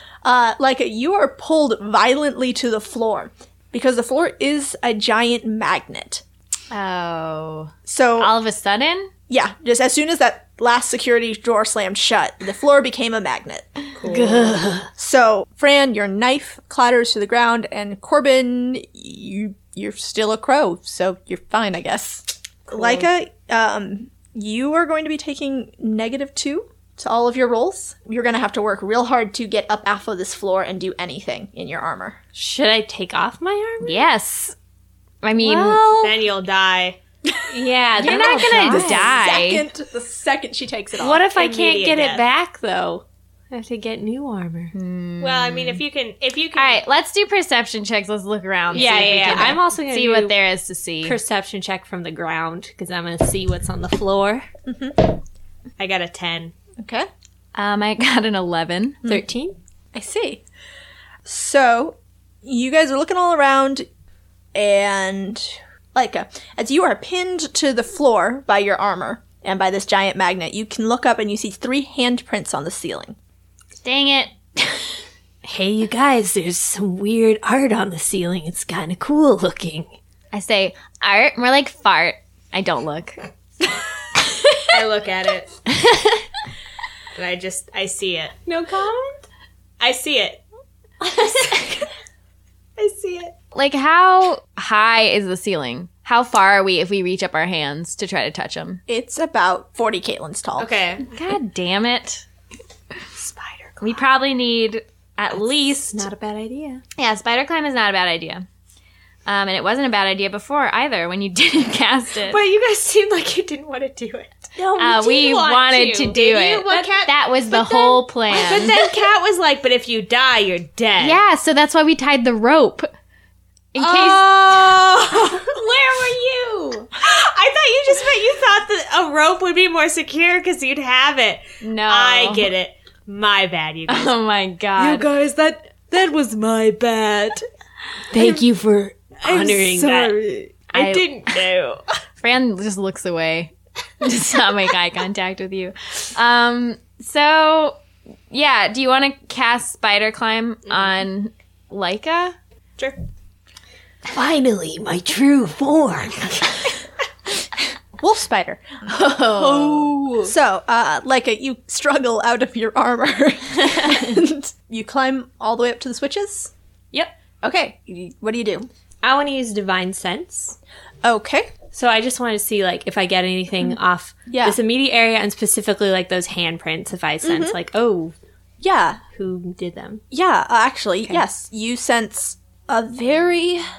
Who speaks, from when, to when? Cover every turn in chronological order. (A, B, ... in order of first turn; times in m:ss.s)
0:00.2-0:06.2 A
0:06.7-0:09.1 B
0:07.9-0:08.3 A
0:09.3-0:13.8 A
0:14.0-0:14.6 C
0:14.0-0:14.9 D
0:14.1-0:14.6 B
0:15.0-0:32.2 A
0:22.7-0:23.1 C
0:32.4-0:34.0 D
0:33.8-0:34.6 B
0:35.2-0:36.2 B
0:35.4-0:35.9 D
0:36.0-0:37.0 C
0:37.5-0:39.2 D
0:38.0-0:41.2 A
0:38.0-0:39.7 B
0:41.0-0:44.7 D
0:41.3-0:42.2 C
0:44.7-0:45.8 B
0:45.2-0:46.8 C
0:46.5-0:51.2 B
0:48.7-0:49.6 C
0:48.7-0:50.4 D
0:51.0-0:54.5 D
0:54.7-0:55.1 A
0:55.8-0:56.6 C
0:56.8-0:57.1 A
0:57.6-0:59.2 B
0:59.0-0:59.6 D
0:59.9-1:00.4 A
1:01.2-1:03.9 A
1:04.6-1:13.2 A
1:13.8-1:14.8 B
1:15.4-1:19.9 D
1:20.3-1:23.2 B
1:24.7-1:25.6 C
1:27.2-1:29.0 C
1:29.8-1:30.4 C
1:31.0-1:31.8 C
1:32.8-1:33.3 C
1:33.5-1:38.8 B
1:38.9-1:40.7 A
1:40.6-1:41.1 C
1:41.1-1:42.2 B
1:43.2-1:43.7 C
1:43.8-1:46.0 B
1:45.3-1:46.8 D
1:47.0-1:48.5 B
1:49.3-1:52.4 B
1:52.3-2:01.2 C
1:54.6-1:56.1 D
1:54.8-1:58.8 B
1:56.7-1:57.0 D
2:01.0-2:02.9 B
2:03.7-2:04.8 B
2:04.2-2:05.4 C
2:07.0-2:14.2 C
2:11.6-2:12.5 B
2:13.9-2:15.1 B
2:14.8-2:17.4 E
2:18.1-2:20.2 D
2:19.2-2:20.6 E
2:20.7-2:21.8 C
2:20.8-2:21.0 B
2:22.2-2:27.8 B
2:28.3-2:32.4 B
2:30.7-2:30.9 C
2:34.1-2:36.6 D
2:38.0-2:38.6 A
2:38.9-2:40.2 B
2:39.5-2:39.8 D
2:40.2-2:46.5 A
2:47.4-2:48.7 A
2:49.0-2:50.6 D
2:51.0-2:51.6 A
2:51.7-2:58.2 D
2:54.3-2:54.6 A
2:57.2-2:57.6 A
2:58.6-2:59.0 A
2:59.1-3:00.0 D
3:00.1-3:03.6 A